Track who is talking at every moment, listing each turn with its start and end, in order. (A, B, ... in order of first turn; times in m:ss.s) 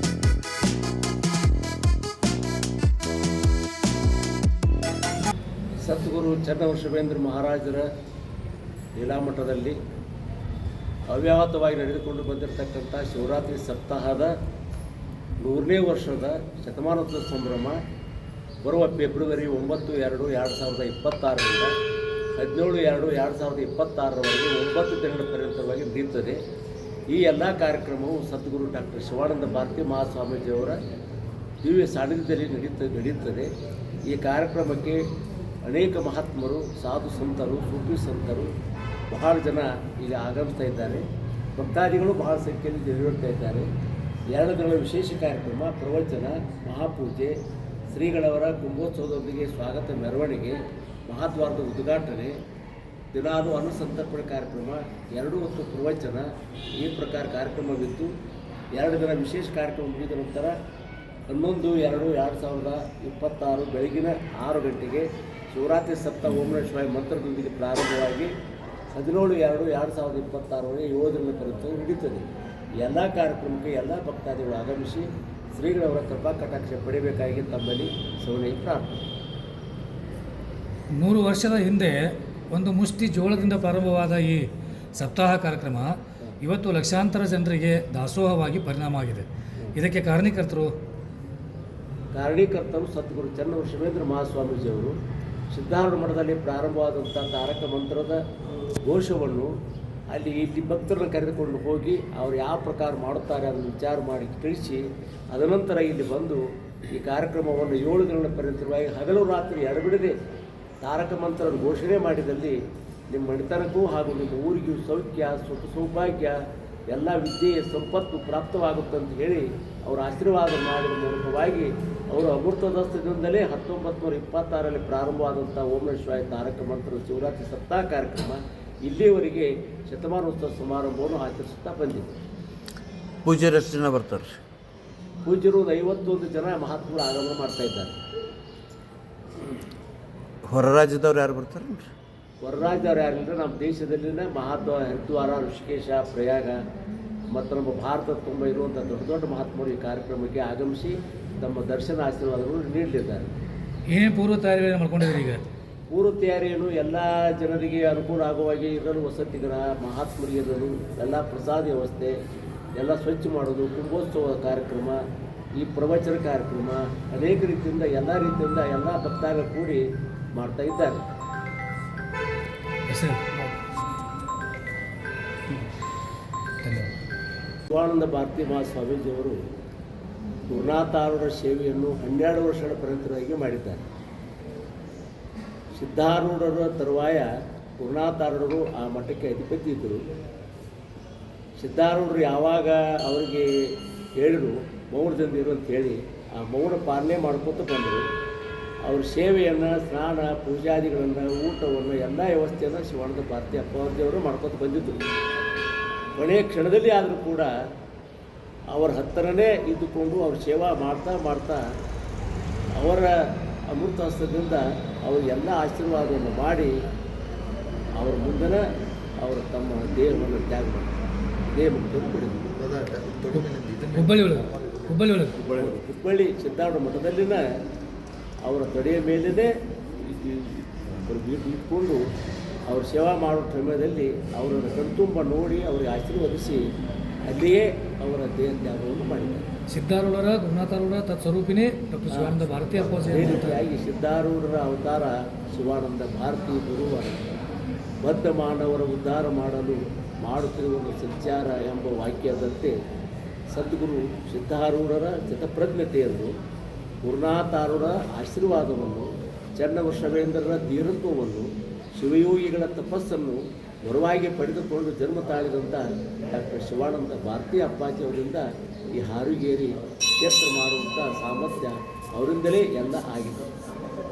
0:05.8-0:07.9 A
0:09.0-0:09.8 A
0:11.1-0:14.3 A
0:15.4-0:17.8 A
0:18.6-0:21.7 A
0:22.3-0:26.4 A
0:27.1-0:30.8 A
0:31.6-0:33.5 A
0:34.0-0:35.1 A
0:35.6-0:38.5 A
0:39.1-0:43.7 A
0:44.3-0:47.4 A
0:47.9-0:52.4 A
0:53.1-0:58.1 A
0:58.7-1:00.6 A
1:01.3-1:08.3 A
1:08.9-1:12.3 A
1:12.8-1:18.9 A
1:21.0-1:22.0 B
1:22.5-1:25.9 B
1:26.4-1:30.7 B
1:32.1-1:35.0 A
1:35.5-1:38.2 A
1:38.8-1:39.5 A
1:40.1-1:50.2 A
1:50.8-1:52.6 A
1:53.1-1:56.4 A
1:56.9-2:12.1 A
2:13.2-2:14.4 C
2:15.2-2:17.9 A
2:20.4-2:21.9 C
2:22.4-2:26.6 A
2:27.3-2:33.3 A
2:33.9-2:35.4 B
2:35.9-2:42.2 A
2:42.8-2:45.0 A
2:45.6-2:49.8 A
2:50.3-2:51.0 A
2:52.9-2:53.5 B
2:56.6-2:56.9 B
2:57.7-2:59.4 A
3:00.5-3:03.8 A
3:05.8-3:07.3 A
3:07.8-3:10.0 A
3:11.6-3:18.1 A
3:18.8-3:25.0 A
3:26.2-3:27.5 A
3:28.7-3:31.6 A
3:32.7-3:33.1 A
3:33.7-3:36.7 A
3:38.0-3:38.6 A
3:39.2-3:42.6 A
3:43.3-3:45.4 B
3:45.4-3:47.4 A
3:48.4-3:52.0 A
3:52.7-3:56.6 A
3:57.2-3:59.5 A
3:59.7-4:03.6 B
4:02.1-4:07.2 A
4:08.0-4:12.8 A
4:13.5-4:16.3 A
4:17.0-4:33.5 A